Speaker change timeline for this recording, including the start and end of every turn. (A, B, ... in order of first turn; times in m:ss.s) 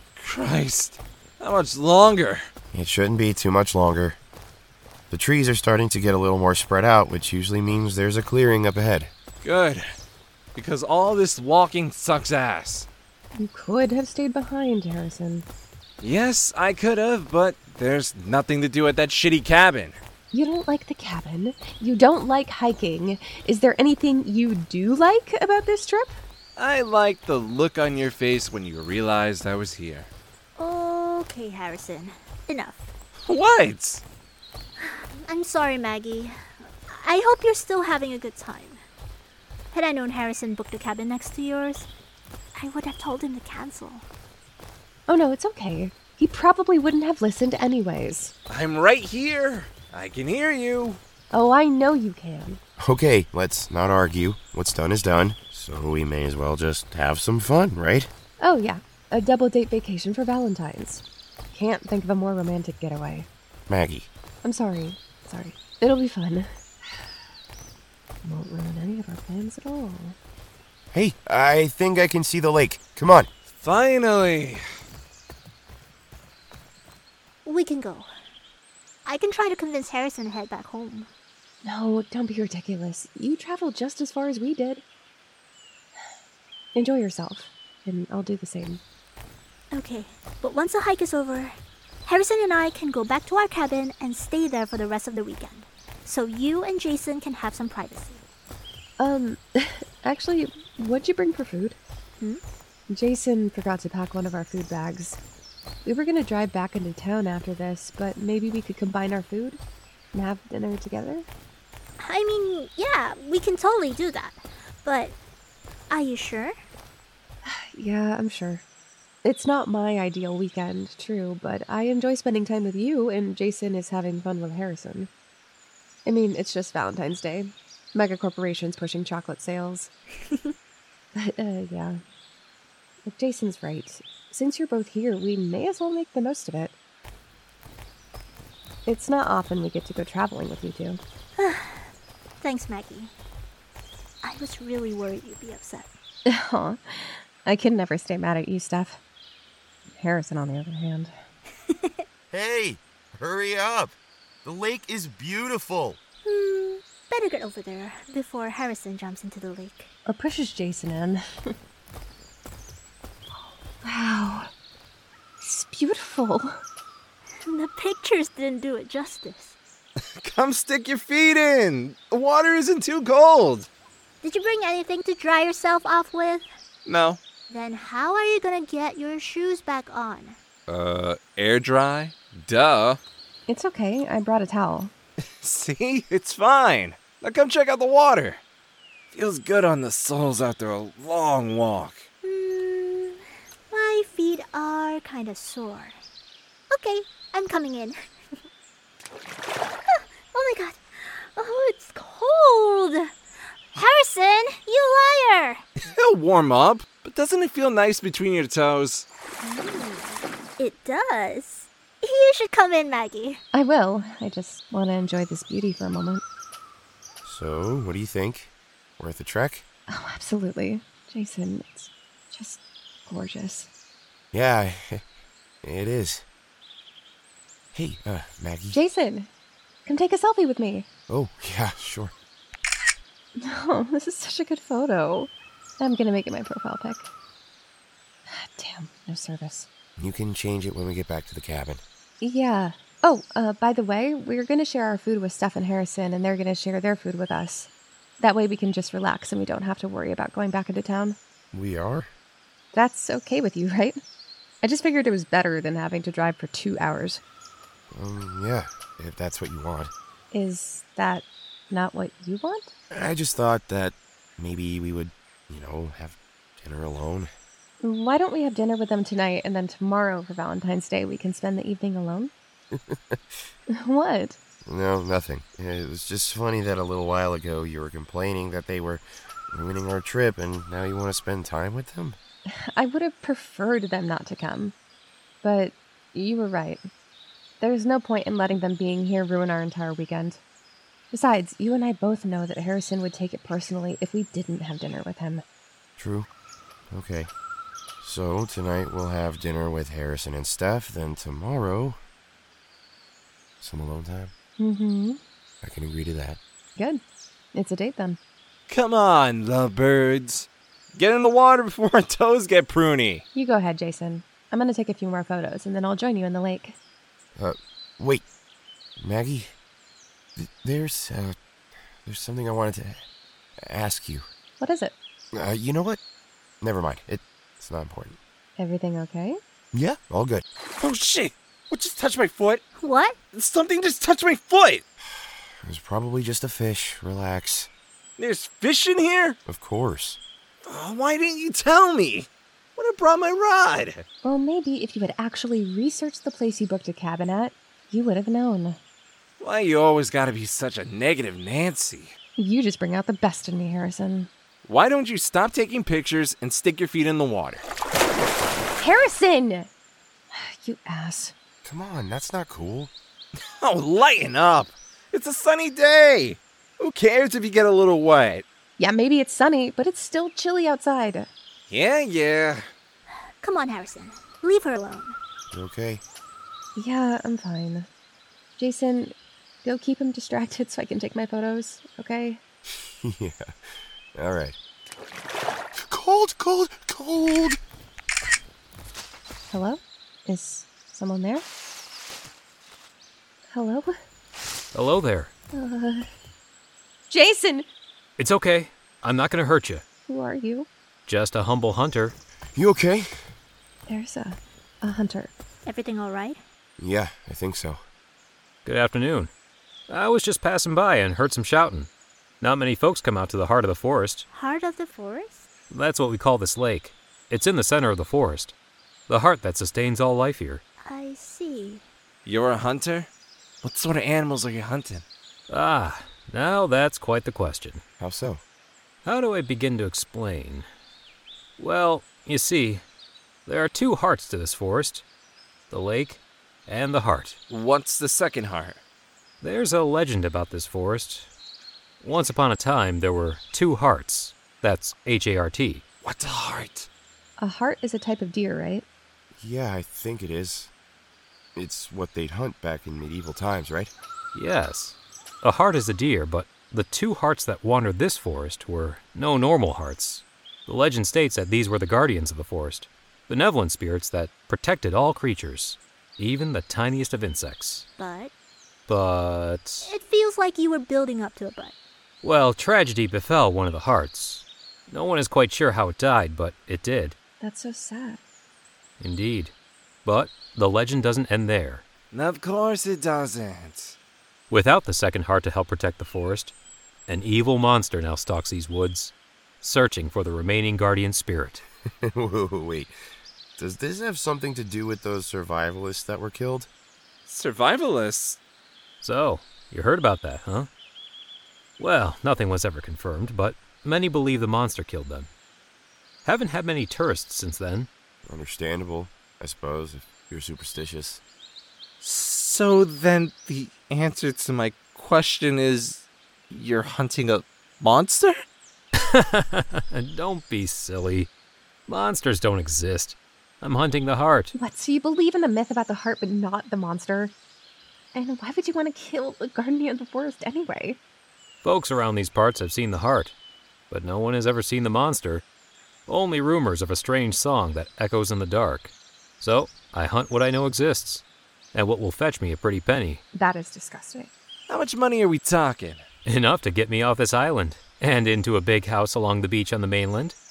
0:00.2-0:02.4 A
0:02.7-0:04.2 B
0:05.1-0:09.1 B
0:09.4-0:09.8 A
0:10.5-0:12.9 A
0:13.4-0:15.4 C
0:16.0-0:20.0 A
0:20.3-0:26.1 C
0:26.6-0:30.1 A
0:30.6-0:32.8 D
0:33.2-0:34.0 A
0:34.8-0:36.3 D
0:36.9-0:38.8 D
0:39.7-0:41.9 D
0:42.6-0:44.0 D
0:45.1-0:48.3 C
0:48.5-0:51.0 A
0:51.3-0:52.6 C
0:52.8-0:58.1 B
0:58.4-1:03.3 C
1:03.7-1:04.1 B
1:04.4-1:07.0 C
1:08.2-1:10.2 C
1:10.9-1:13.3 B
1:13.5-1:14.6 A
1:17.4-1:18.1 D
1:19.0-1:21.1 D
1:21.6-1:24.8 C
1:26.7-1:28.8 C
1:29.7-1:38.2 D
1:39.0-1:41.8 C
1:42.9-1:45.2 C
1:45.8-1:49.6 C
1:50.1-1:51.2 C
1:52.0-1:55.2 D
1:55.9-1:56.5 D
1:57.4-1:58.6 C
1:59.2-2:05.1 C
2:06.0-2:09.9 C
2:11.1-2:12.0 C
2:13.0-2:16.7 C
2:18.8-2:21.0 C
2:21.4-2:21.9 D
2:22.4-2:23.1 D
2:24.2-2:25.9 D
2:26.2-2:29.0 C
2:29.9-2:31.1 C
2:31.7-2:31.9 D
2:32.3-2:36.0 B
2:36.2-2:39.9 D
2:40.0-2:41.5 C
2:43.8-2:44.5 C
2:45.4-2:46.5 C
2:47.4-2:49.6 D
2:50.2-2:53.7 A
2:54.2-2:56.4 D
2:56.8-2:57.2 A
2:57.5-3:00.4 D
3:00.7-3:03.0 A
3:03.5-3:04.9 C
3:05.4-3:08.4 A
3:09.1-3:12.0 A
3:12.2-3:16.0 D
3:16.7-3:18.0 D
3:19.9-3:23.1 D
3:23.7-3:25.6 D
3:25.8-3:29.0 A
3:29.4-3:33.4 D
3:33.5-3:36.2 C
3:37.2-3:39.6 B
3:39.9-3:43.7 C
3:44.3-3:45.0 B
3:45.6-3:46.2 B
3:47.7-3:48.8 B
3:48.7-3:49.3 C
3:49.8-3:50.9 C
3:51.1-3:52.1 B
3:53.4-3:57.1 C
3:58.3-3:59.7 C
4:00.0-4:01.8 B
4:02.2-4:07.7 C
4:08.2-4:11.2 C
4:11.5-4:12.1 B
4:12.7-4:14.0 C
4:14.6-4:17.2 C
4:17.9-4:19.9 B
4:20.3-4:22.7 C
4:22.9-4:27.3 B
4:27.8-4:32.3 C
4:32.7-4:33.4 B
4:33.7-4:34.4 C
4:34.6-4:42.2 B
4:42.5-4:44.7 C
4:45.4-4:46.8 C
4:47.6-4:50.4 C
4:51.1-4:55.4 C
4:56.0-4:56.3 B
4:56.9-4:57.3 B
4:58.0-5:02.0 B
5:03.6-5:04.3 B
5:04.6-5:05.2 C
5:05.6-5:06.4 B
5:07.5-5:08.2 C
5:08.7-5:13.2 A
5:13.3-5:16.8 C
5:17.4-5:18.2 B
5:19.0-5:19.5 B
5:20.4-5:21.3 B
5:22.0-5:23.0 B
5:23.6-5:24.2 B
5:24.6-5:24.9 C
5:25.3-5:26.0 B
5:26.6-5:28.2 B
5:28.6-5:29.4 C
5:29.7-5:30.4 B
5:30.8-5:32.6 A
5:32.8-5:33.2 D
5:33.3-5:34.8 A
5:35.1-5:37.7 B
5:38.2-5:39.4 A
5:39.5-5:40.2 B
5:40.6-5:44.0 A
5:44.2-5:48.8 C
5:49.4-5:52.1 A
5:52.4-5:54.3 C
5:54.6-5:57.6 A
5:58.8-5:59.7 C
6:00.3-6:01.3 C
6:01.6-6:02.9 B
6:03.4-6:08.4 A
6:08.8-6:11.3 C
6:11.7-6:12.6 A
6:13.4-6:15.2 D
6:15.5-6:16.0 B
6:16.8-6:17.9 C
6:18.6-6:22.4 C
6:22.7-6:23.5 B
6:24.1-6:24.6 B
6:25.7-6:27.6 B
6:29.5-6:31.4 C
6:33.5-6:33.9 C
6:34.7-6:35.3 E
6:35.5-6:36.1 C
6:37.1-6:37.6 C
6:38.2-6:39.8 E
6:40.1-6:40.7 C
6:41.0-6:42.2 E
6:42.5-6:43.1 B
6:43.9-6:45.3 C
6:45.6-6:46.4 D
6:46.8-6:47.8 B
6:48.6-6:49.3 E
6:49.9-6:51.9 E
6:52.4-6:54.2 E
6:54.3-6:55.5 D
6:55.7-6:58.5 E
6:59.1-7:00.6 E
7:00.8-7:01.8 D
7:02.2-7:03.1 A
7:03.6-7:05.0 A
7:05.5-7:07.8 E
7:08.0-7:08.4 B
7:09.0-7:10.7 E
7:11.6-7:12.8 E
7:13.4-7:15.0 E
7:15.7-7:17.4 E
7:17.5-7:18.8 A
7:19.4-7:21.3 E
7:22.0-7:25.8 E
7:26.0-7:26.9 A
7:27.4-7:28.8 C
7:29.3-7:30.7 B
7:31.6-7:33.9 B
7:34.3-7:47.8 E
7:48.0-7:48.3 D
7:48.9-7:49.9 E
7:49.8-7:51.7 D
7:52.2-7:57.2 E
7:57.4-7:58.2 C
7:59.0-7:59.5 E
8:00.0-8:01.9 E
8:02.1-8:04.0 A
8:04.5-8:06.5 E
8:07.1-8:11.6 E
8:12.0-8:12.9 B
8:13.6-8:16.7 B
8:17.2-8:18.4 A
8:19.0-8:20.7 E
8:21.8-8:25.3 E
8:26.2-8:27.9 E
8:28.2-8:31.2 B
8:32.0-8:38.4 A
8:39.0-8:41.3 E
8:41.9-8:44.5 E
8:44.5-8:47.3 C
8:48.1-8:51.0 C
8:51.6-8:53.3 E
8:53.9-8:55.4 E
8:56.1-9:03.2 E
9:03.3-9:04.3 C
9:04.7-9:06.0 A
9:06.2-9:10.4 E